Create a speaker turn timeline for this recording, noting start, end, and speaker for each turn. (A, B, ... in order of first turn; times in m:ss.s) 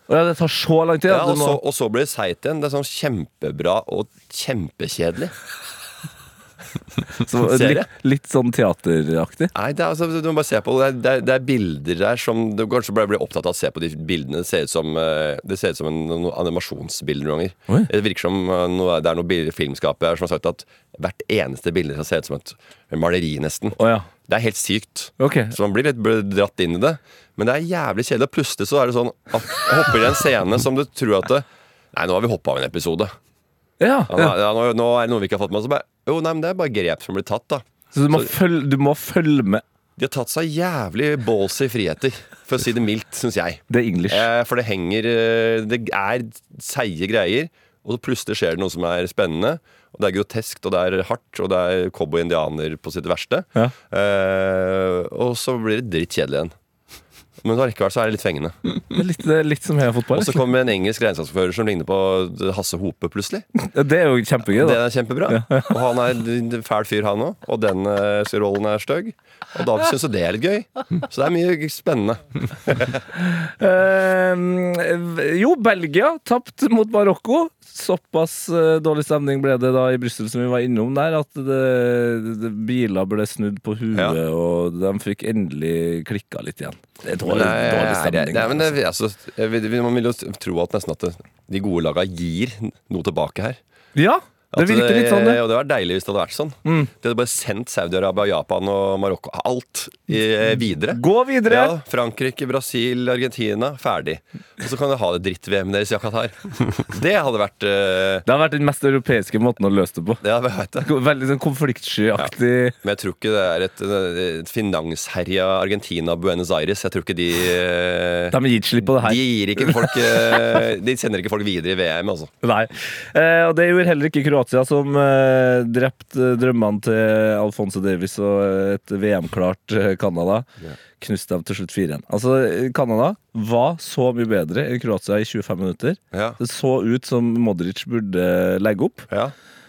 0:00.1-0:01.6 A
0:01.1-0:05.3 B
0:07.2-0:09.5 A
0:07.4-0:07.9 B
0:09.5-0:33.1 B
0:23.8-0:24.1 A
0:25.2-0:25.5 A
0:33.8-0:34.3 A
0:34.1-0:38.3 B
0:37.9-0:39.6 A
0:40.0-0:56.5 B
0:43.7-0:44.3 A
0:57.4-0:58.6 B
0:58.9-1:00.4 A
1:00.1-1:03.4 B
1:03.6-1:05.7 A
1:04.5-1:13.0 B
1:13.2-1:28.8 A
1:23.9-1:24.2 B
1:27.2-1:33.6 B
1:34.0-1:35.4 A
1:34.5-1:48.2 B
1:36.6-1:36.9 A
1:40.9-1:41.7 A
1:48.3-1:50.2 A
1:50.2-1:50.9 B
1:50.8-1:52.7 A
1:52.8-1:58.4 B
1:58.3-2:00.4 A
1:58.9-2:02.3 B
2:02.4-2:19.1 A
2:16.1-2:16.4 B